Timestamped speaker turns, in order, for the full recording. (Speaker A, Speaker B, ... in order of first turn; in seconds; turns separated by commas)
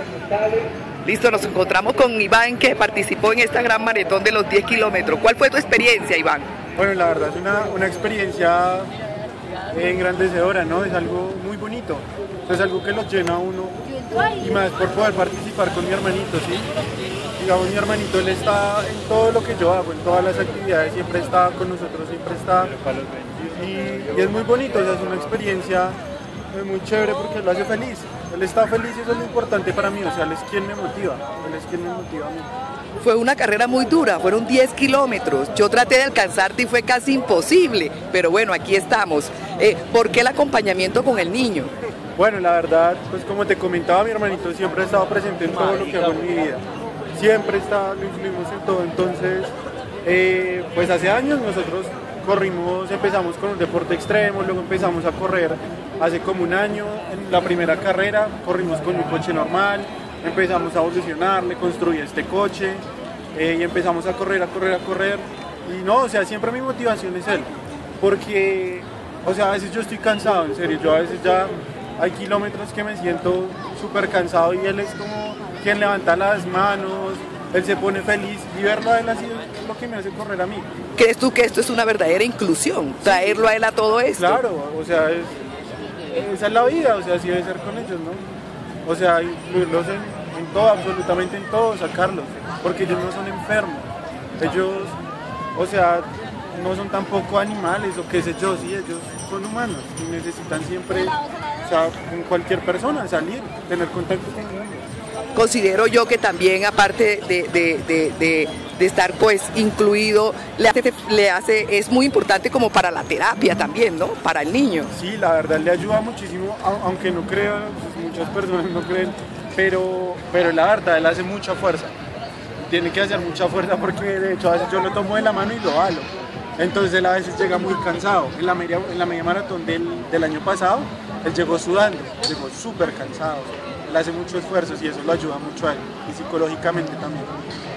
Speaker A: 1.0-6.5, Speaker B: 6.8-8.9, Speaker B: 9.7-13.8, Speaker B: 14.3-16.7, Speaker B: 17.4-22.8, Speaker B: 23.4-26.0, Speaker B: 26.5-32.5, Speaker A: 33.0-41.7, Speaker B: 42.2-49.5, Speaker B: 50.0-80.7, Speaker A: 81.0-84.4, Speaker B: 84.2-85.4, Speaker B: 86.1-88.2, Speaker B: 88.8-93.9, Speaker B: 94.4-95.0, Speaker B: 95.5-104.9, Speaker A: 105.3-114.9, Speaker B: 114.9-122.0, Speaker B: 122.6-137.3